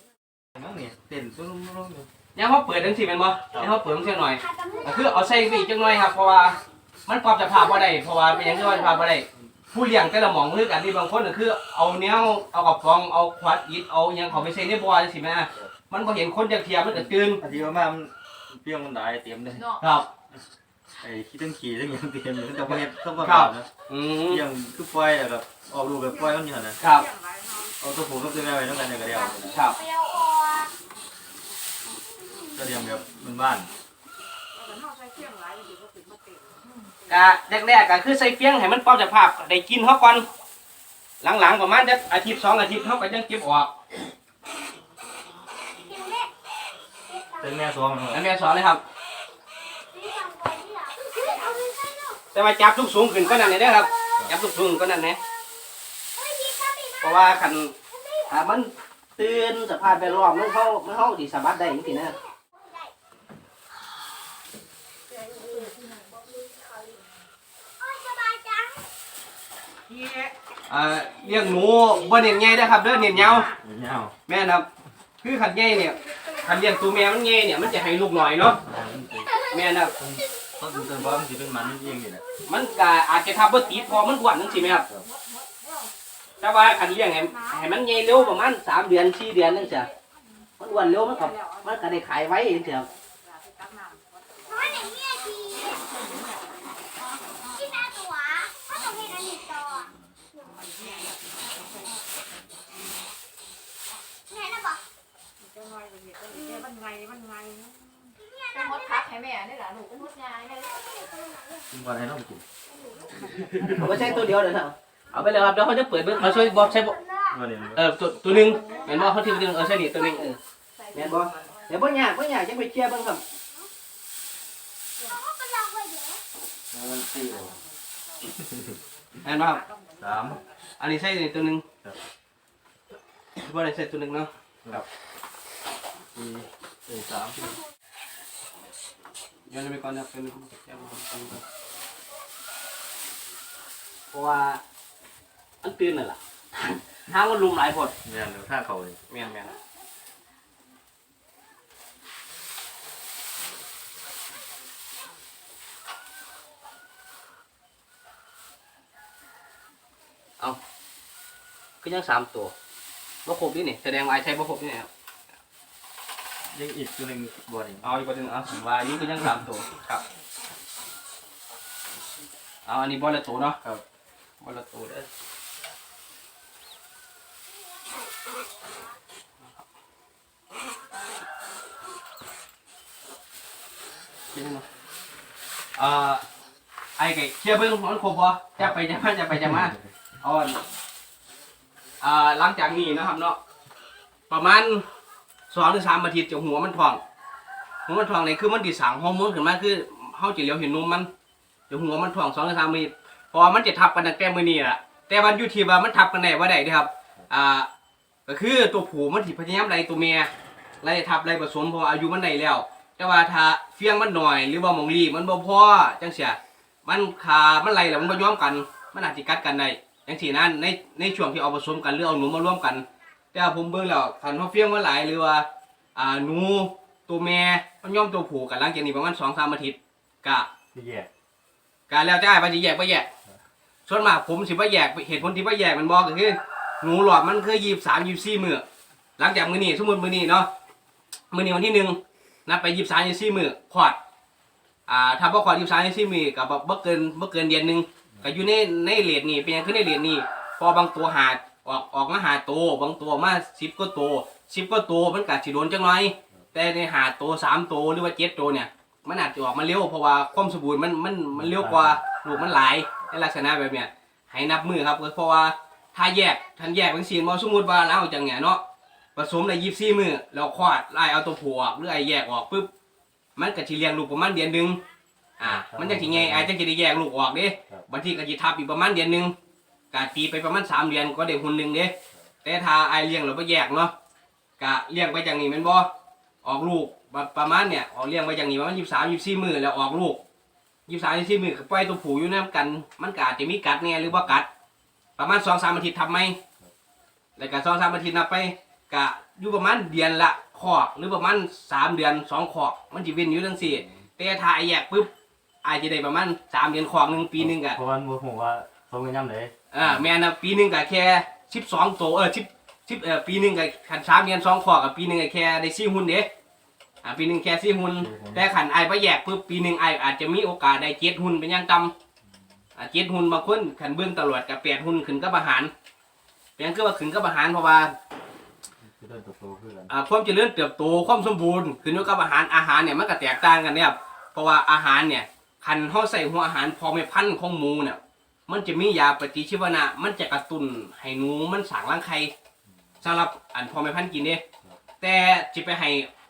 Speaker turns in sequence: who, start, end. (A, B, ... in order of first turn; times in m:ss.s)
0:00.6-0:02.1 A
0:02.4-0:17.4 B
0:03.8-0:06.6 C
0:07.5-0:09.2 C
0:16.9-0:19.7 A
0:19.6-0:19.8 D
0:19.8-0:20.1 B
0:21.0-0:23.7 A
0:22.6-0:24.4 B
0:24.3-0:26.8 A
0:26.8-0:27.1 B
0:27.8-0:29.5 A
0:29.2-0:30.7 C
0:29.5-0:29.8 B
0:32.3-0:32.6 C
0:32.6-0:33.7 A
0:37.1-0:40.3 B
0:41.2-0:43.7 B
0:45.8-0:46.3 C
0:47.1-0:47.6 C
0:47.4-0:48.2 A
0:48.1-0:48.8 B
0:49.9-0:52.2 C
0:52.3-0:55.2 B
0:53.2-0:54.1 C
0:56.2-0:58.4 C
0:57.0-0:57.7 B
0:58.3-1:02.2 B
1:00.0-1:00.4 C
1:01.6-1:02.9 C
1:05.3-1:05.6 C
1:07.8-1:08.8 C
1:10.7-1:13.5 B
1:13.1-1:14.2 A
1:14.3-1:14.7 B
1:15.2-1:18.6 B
1:18.6-1:19.3 A
1:19.5-1:19.9 B
1:20.0-1:22.2 A
1:20.4-1:22.9 C
1:22.5-1:24.8 B
1:24.9-1:25.9 D
1:26.4-1:29.9 B
1:30.6-1:32.9 B
1:34.5-1:35.9 C
1:37.5-1:40.6 C
1:44.3-1:44.8 C
1:46.3-1:46.7 C
1:48.2-1:49.0 C
1:48.5-1:50.4 D
1:50.3-1:51.7 C
1:51.7-1:52.4 A
1:53.0-1:53.4 C
1:53.3-1:54.2 A
1:53.8-1:57.0 B
1:56.1-1:57.5 C
1:57.3-1:57.8 A
1:57.8-2:00.4 B
1:58.3-2:00.2 C
1:58.6-1:58.9 D
2:00.9-2:03.2 B
2:05.0-2:06.2 C
2:06.7-2:07.6 A
2:08.3-2:08.7 A
2:09.2-2:09.6 B
2:10.0-2:10.4 A
2:10.8-2:11.6 B
2:13.4-2:14.8 B
2:16.2-2:17.6 B
2:19.5-2:21.4 B
2:24.1-2:24.6 B
2:25.6-2:28.0 B
2:28.0-2:29.0 A
2:29.1-2:29.6 B
2:41.8-2:42.5 B
2:43.2-2:44.9 B
2:46.5-2:47.9 A
2:47.8-2:50.0 B
2:52.7-2:53.8 B
2:54.4-2:55.1 B
3:04.3-3:04.6 B
3:05.8-3:06.2 B
3:07.0-3:10.6 B
3:09.3-3:09.8 A
3:12.0-3:13.4 B
3:14.3-3:14.8 B
3:15.5-3:17.0 B
3:17.9-3:21.1 B
3:21.7-3:27.7 B
3:28.3-3:30.3 B
3:30.8-3:50.5 B
3:50.7-3:51.1 A
3:51.9-3:53.1 B
3:53.9-3:58.6 B
3:59.2-4:00.5 B
4:01.3-4:04.0 B
4:04.9-4:28.6 B
4:08.1-4:08.4 A
4:21.3-4:22.4 A
4:29.2-4:32.7 B
4:33.4-4:34.8 B
4:35.4-4:39.3 B
4:35.4-4:36.5 A
4:39.9-4:43.9 B
4:44.6-4:45.9 B
4:46.4-4:50.2 B
4:50.9-4:54.5 B
4:55.2-4:56.4 B
4:57.4-5:05.1 B
5:03.6-5:04.0 A
5:05.6-5:07.8 B
5:07.3-5:10.0 A
5:09.7-5:16.3 B
5:17.0-5:21.9 B
5:18.0-5:18.5 A
5:22.8-5:25.7 B
5:26.6-5:27.9 B
5:28.8-5:29.9 A
5:29.9-5:42.3 B
5:43.0-5:44.4 B
5:45.0-5:46.1 B